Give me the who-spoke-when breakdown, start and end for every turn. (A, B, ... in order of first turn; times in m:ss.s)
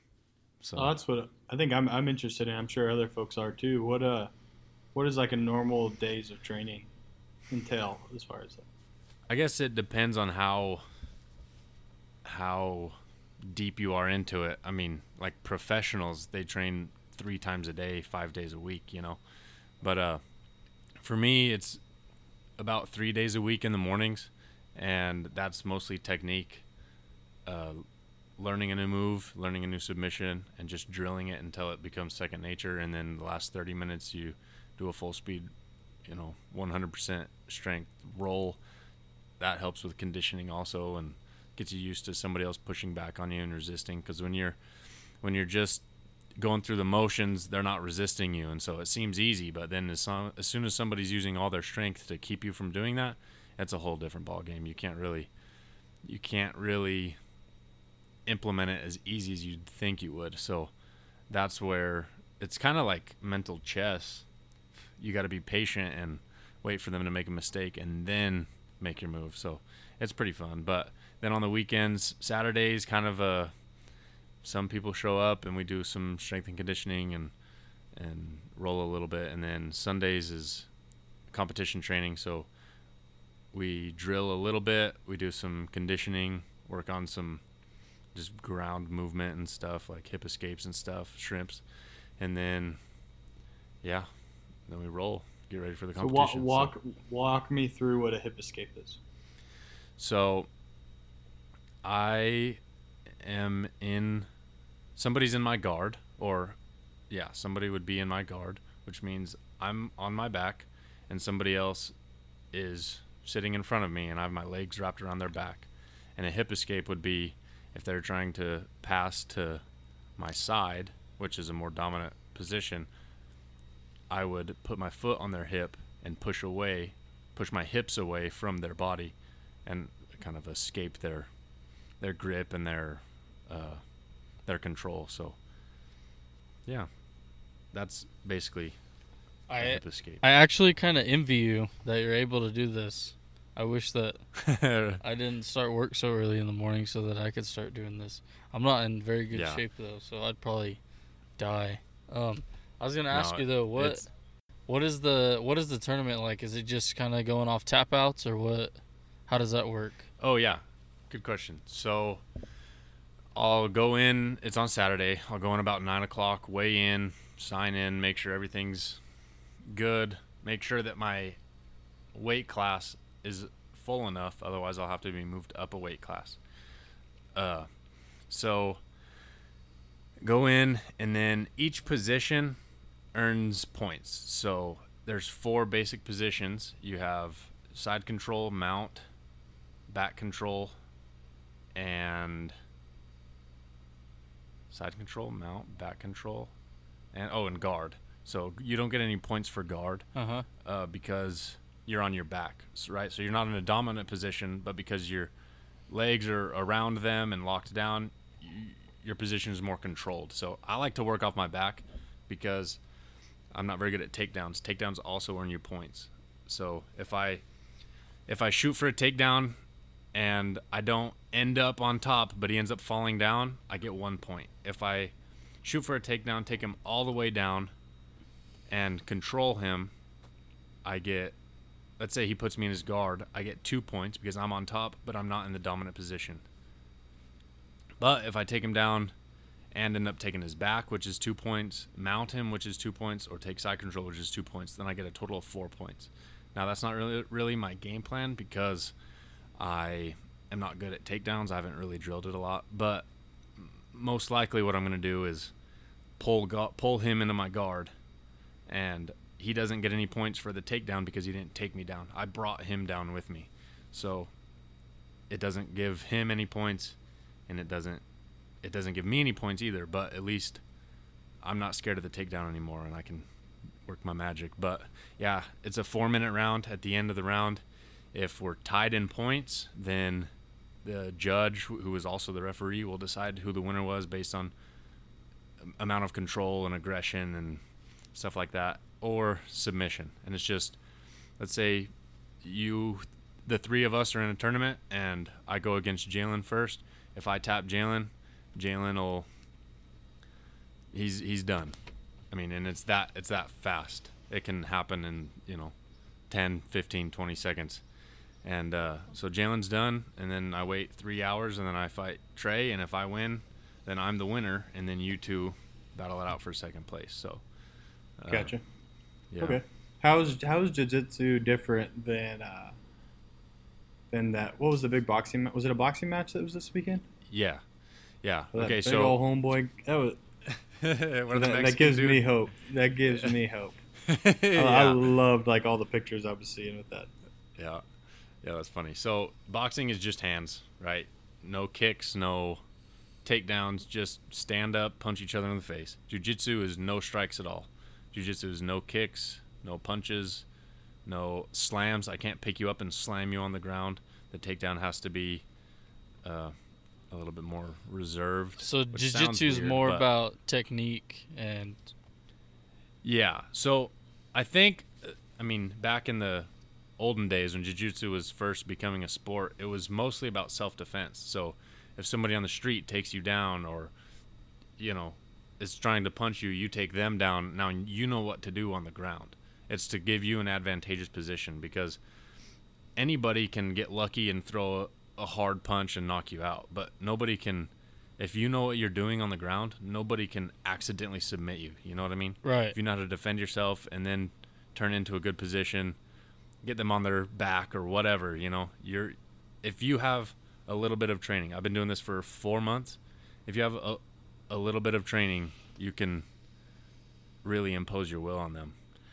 0:00.6-0:01.0 A
0:00.8-0:04.3 B
0:04.9-0:06.9 B
0:07.5-0:08.6 B
0:09.3-0:10.8 A
0:12.2-0:19.2 A
0:19.8-0:20.2 A
0:21.0-0:21.8 A
0:22.6-0:26.6 A
0:27.4-0:27.8 A
0:28.4-0:35.5 A
0:36.0-0:38.6 A
0:39.4-0:44.6 A
0:45.2-0:45.8 A
0:46.4-0:55.3 A
0:56.0-0:57.2 A
0:58.2-1:00.7 A
1:01.3-1:04.2 A
1:05.0-1:13.5 A
1:14.4-1:17.3 A
1:17.9-1:20.7 A
1:21.3-1:22.5 A
1:23.5-1:27.4 A
1:28.1-1:31.6 A
1:32.2-1:32.8 A
1:33.8-1:34.1 A
1:34.7-1:36.7 A
1:36.0-1:39.0 B
1:40.0-1:40.5 A
1:41.8-1:42.6 A
1:43.2-1:44.3 A
1:45.0-1:46.6 A
1:47.1-1:51.9 A
1:52.5-1:59.6 A
2:00.2-2:02.9 A
2:04.1-2:09.1 A
2:09.6-2:11.3 A
2:12.0-2:13.8 A
2:14.4-2:15.4 A
2:17.7-2:18.8 A
2:19.5-2:24.2 C
2:19.6-2:20.2 A
2:24.4-2:25.0 A
2:25.0-2:30.8 C
2:29.3-2:29.6 A
2:31.4-2:34.0 C
2:33.1-2:34.1 A
2:34.7-2:38.8 C
2:39.3-2:40.1 C
2:40.2-2:42.2 A
2:43.3-2:49.0 A
2:49.6-2:51.4 A
2:52.1-2:56.4 A
2:57.3-2:57.7 A
2:58.3-2:58.8 A
3:00.2-3:02.6 A
3:03.1-3:09.1 A
3:09.9-3:10.7 A
3:11.7-3:12.5 A
3:14.7-3:16.5 A
3:17.1-3:20.1 A
3:20.1-3:20.5 C
3:20.6-3:25.3 A
3:25.9-3:32.8 A
3:33.5-3:37.4 A
3:38.3-3:39.6 A
3:40.1-3:47.7 A
3:48.7-3:49.9 A
3:50.8-3:51.4 A
3:52.0-3:56.4 A
3:58.0-3:59.1 A
3:59.7-4:08.9 A
4:09.6-4:15.5 A
4:16.2-4:17.9 A
4:18.7-4:24.3 A
4:25.3-4:27.0 A
4:27.5-4:28.0 A
4:28.6-4:30.6 A
4:31.4-4:33.2 A
4:33.8-4:40.3 A
4:40.8-4:44.5 A
4:45.6-4:47.6 A
4:48.1-4:50.8 A
4:51.4-4:59.3 A
5:00.9-5:01.8 A
5:02.3-5:05.7 A
5:06.3-5:07.8 A
5:08.4-5:17.4 A
5:18.2-5:18.5 A
5:18.3-5:18.6 B
5:19.3-5:19.6 A
5:19.4-5:22.7 B
5:24.1-5:27.0 B
5:27.3-5:27.6 A
5:28.2-5:29.2 A
5:28.5-5:30.2 B
5:30.5-5:32.2 A
5:31.3-5:33.8 B
5:33.1-5:33.3 A
5:34.0-5:35.1 A
5:34.5-5:37.1 B
5:37.6-5:37.8 A
5:38.4-5:42.6 A
5:43.2-5:50.4 A
5:51.0-5:55.4 A
5:56.2-5:56.5 A
5:57.1-6:00.1 A
5:58.6-6:01.9 C
6:03.0-6:13.9 A
6:14.8-6:22.0 A
6:23.0-6:36.0 A
6:32.4-6:32.8 C
6:36.6-6:46.2 A
6:47.4-6:48.8 A